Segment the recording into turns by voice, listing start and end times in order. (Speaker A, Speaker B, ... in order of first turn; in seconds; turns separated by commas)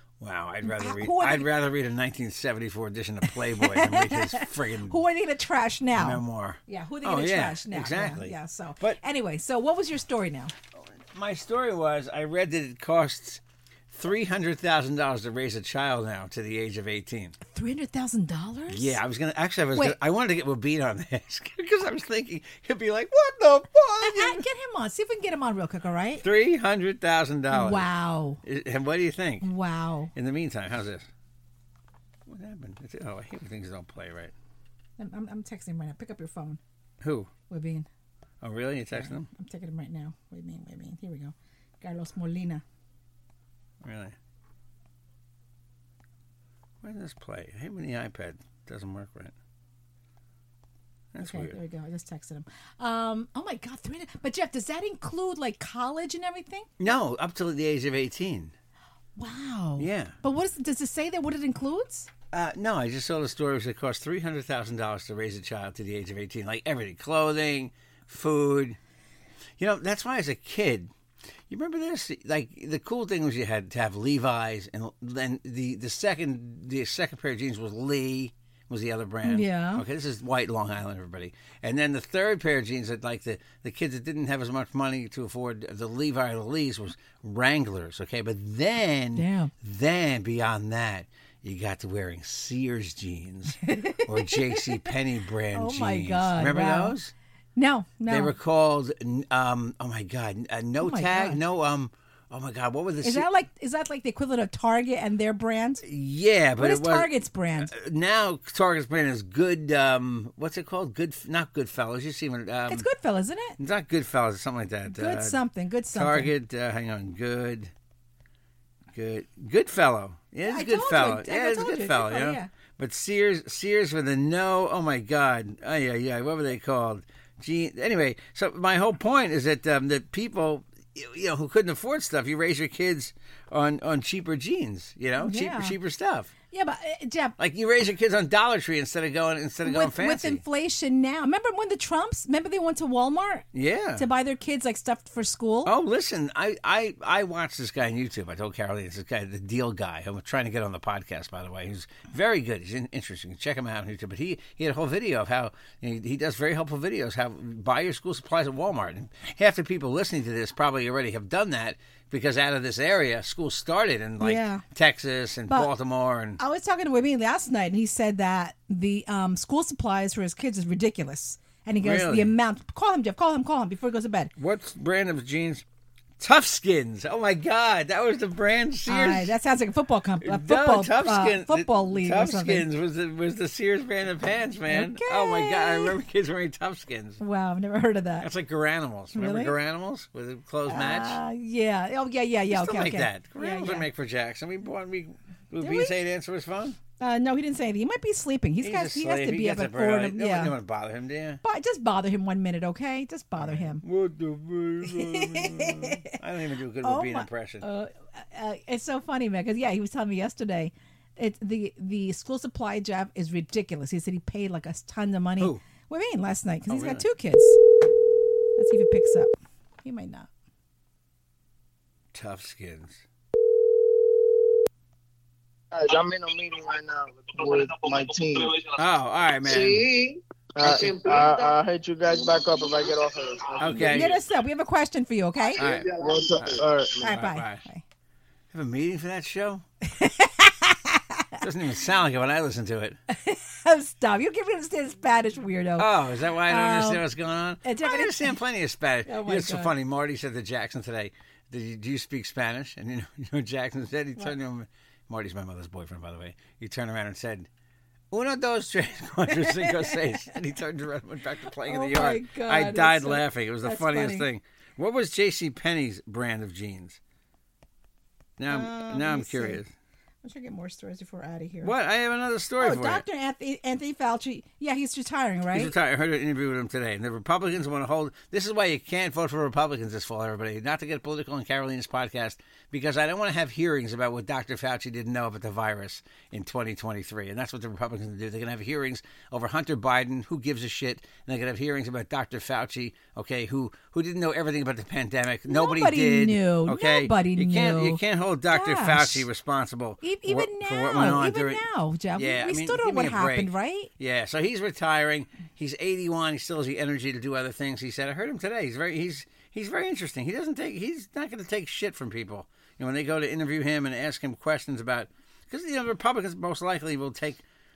Speaker A: 0.2-5.0, Speaker B: 0.6-1.5, Speaker B: 3.2-10.5, Speaker A: 5.9-9.0, Speaker A: 10.8-17.4, Speaker B: 17.5-19.0, Speaker A: 18.7-24.4, Speaker B: 24.0-26.2, Speaker A: 26.2-27.9, Speaker B: 27.5-28.4, Speaker A: 28.4-29.5, Speaker B: 29.4-30.1, Speaker A: 30.1-31.1, Speaker A: 32.3-34.3, Speaker B: 35.0-36.6, Speaker A: 37.0-37.3, Speaker B: 37.5-37.9, Speaker A: 38.4-39.3, Speaker B: 38.9-42.6, Speaker A: 43.8-44.1, Speaker A: 46.8-49.3, Speaker A: 51.1-51.5, Speaker B: 51.2-56.7, Speaker A: 56.8-58.5, Speaker B: 59.2-62.1, Speaker A: 59.8-60.1, Speaker A: 62.3-68.8, Speaker A: 69.6-70.9, Speaker A: 71.5-97.1, Speaker B: 79.2-79.8, Speaker B: 89.2-89.5, Speaker B: 93.6-94.8, Speaker B: 95.5-97.0, Speaker B: 97.5-98.3, Speaker A: 98.1-103.3, Speaker B: 100.8-101.4, Speaker B: 103.0-105.8, Speaker A: 105.8-107.1, Speaker B: 106.6-107.7, Speaker A: 107.6-112.9, Speaker B: 112.7-113.6, Speaker A: 113.6-115.4, Speaker B: 114.9-116.3, Speaker A: 115.9-117.7, Speaker A: 118.9-136.3, Speaker B: 120.4-122.5, Speaker B: 135.2-135.7, Speaker B: 136.5-137.3, Speaker A: 137.4-140.4, Speaker B: 139.6-143.4, Speaker A: 143.5-144.1, Speaker B: 144.0-145.7, Speaker A: 145.6-166.4, Speaker B: 164.2-164.6, Speaker B: 166.4-174.3, Speaker A: 171.8-172.3, Speaker A: 174.4-175.6, Speaker A: 176.2-179.3, Speaker B: 178.9-182.7, Speaker A: 180.2-187.2, Speaker B: 184.7-185.9, Speaker B: 187.2-188.3, Speaker A: 188.2-191.2, Speaker B: 189.1-189.5, Speaker B: 190.7-193.9, Speaker A: 192.5-196.8, Speaker B: 195.6-195.9, Speaker B: 197.0-200.5, Speaker A: 198.6-201.4, Speaker B: 201.4-203.8, Speaker A: 203.4-207.7, Speaker B: 204.8-206.1, Speaker B: 206.8-217.6, Speaker A: 216.7-217.0, Speaker B: 218.6-219.3, Speaker B: 219.8-220.3, Speaker A: 222.1-223.0, Speaker C: 225.7-228.7, Speaker A: 228.8-229.9, Speaker C: 229.4-234.1, Speaker A: 233.6-234.2, Speaker B: 233.9-235.6, Speaker A: 235.6-237.6, Speaker C: 235.6-237.1, Speaker B: 237.0-237.8, Speaker A: 238.5-239.6, Speaker B: 239.9-241.4, Speaker A: 241.4-243.0, Speaker B: 243.1-245.9, Speaker A: 245.8-257.5, Speaker B: 246.5-247.0, Speaker B: 247.6-248.4, Speaker B: 249.1-249.7, Speaker A: 258.1-267.0, Speaker B: 259.3-260.2, Speaker B: 261.6-264.3, Speaker A: 268.4-269.7, Speaker B: 268.5-269.6, Speaker B: 270.2-271.7, Speaker A: 271.6-273.0, Speaker B: 272.6-275.7, Speaker A: 275.5-301.6, Speaker B: 295.5-299.2, Speaker B: 300.0-303.9, Speaker A: 302.1-317.4